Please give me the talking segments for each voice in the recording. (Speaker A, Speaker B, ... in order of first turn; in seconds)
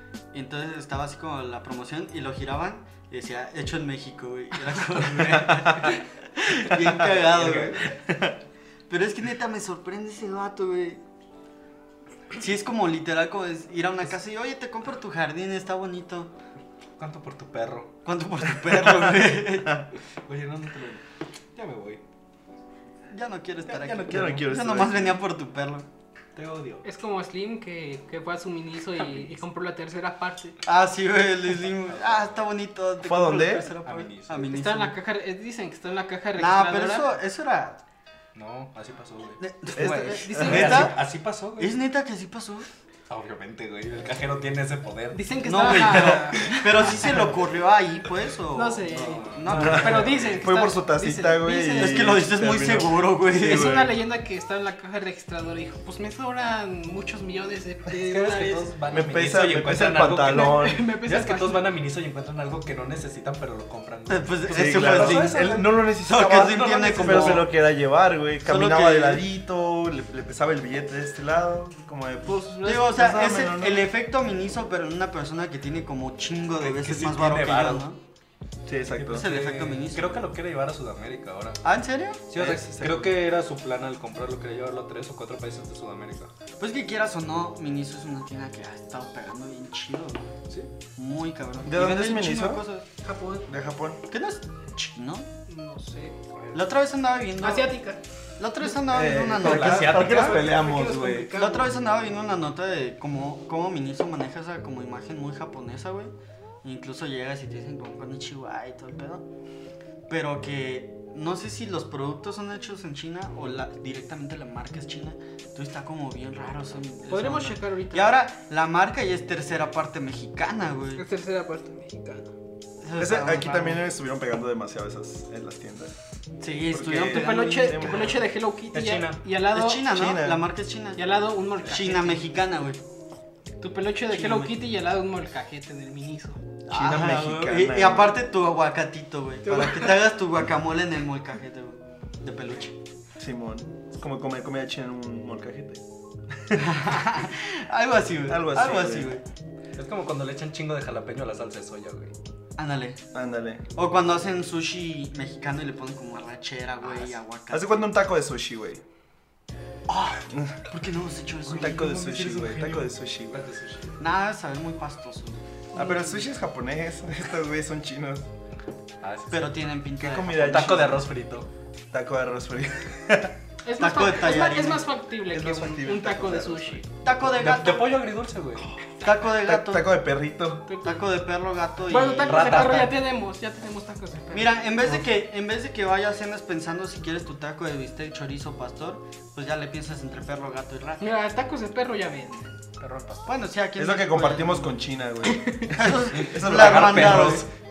Speaker A: 0.3-7.9, 8.9-11.0, 12.4-16.3, 18.1-19.9, 23.1-25.9, 30.6-35.0, 36.4-37.8, 39.4-41.0, 41.6-42.7, 45.4-50.1, 51.8-53.8, 64.1-67.5, 68.5-69.2, 72.6-78.0, 79.1-80.3, 81.6-82.2, 86.6-90.3, 91.0-92.9, 94.1-95.3, 96.5-97.8, 98.4-100.4, 101.3-106.1, 106.6-109.2, 110.1-121.0, 122.8-123.8, 126.4-128.0, 129.5-132.8, 134.1-134.6, 136.7-142.8, 146.5-149.2, 152.6-153.0, 153.8-157.9, 159.9-161.9, 164.0-165.4, 169.3-171.0, 173.8-174.9, 177.0-178.0, 179.0-179.9, 180.8-182.9, 184.3-191.0, 193.2-194.8, 195.7-197.5
Speaker B: 6.9-7.9, 17.0-18.0, 20.2-22.0, 23.7-24.4, 26.4-26.9, 31.9-32.4, 33.8-34.5, 38.4-41.7, 43.1-46.9, 49.0-50.5, 58.0-65.6, 66.2-67.5, 76.6-77.9, 79.0-81.6, 82.3-86.3, 99.4-100.7, 128.7-129.2, 149.8-152.1, 161.5-164.0, 169.0-169.7, 170.5-171.5, 177.2-178.7, 182.2-183.0, 192.8-193.3, 196.1-197.5
Speaker C: 8.0-8.4, 24.0-25.2, 33.0-33.7, 39.8-40.8, 49.5-54.0, 58.9-60.9, 64.5-73.9, 78.7-79.3, 82.3-83.2, 91.7-92.6, 93.5-94.0, 98.8-101.4, 123.0-126.0, 126.7-128.3, 129.8-130.4, 136.7-138.2, 143.2-147.0, 148.3-149.2, 153.1-153.7, 157.5-158.8, 160.3-160.7, 161.5-163.5, 165.7-168.3, 170.0-171.1, 171.9-173.3, 175.3-176.8, 179.3-180.7, 193.8-197.5
Speaker D: 26.8-30.6, 34.5-37.1, 39.8-40.9, 45.1-47.3, 48.5-52.2, 53.3-58.7, 60.3-61.6, 93.0-93.5, 95.5-96.2, 97.4-98.0, 100.0-101.7, 117.1-118.2, 121.0-122.3, 127.1-129.9, 131.0-132.3, 133.6-136.4, 139.5-140.1, 165.7-166.2, 173.6-176.9, 180.7-181.1, 181.9-184.6, 191.0-192.6, 195.3-195.7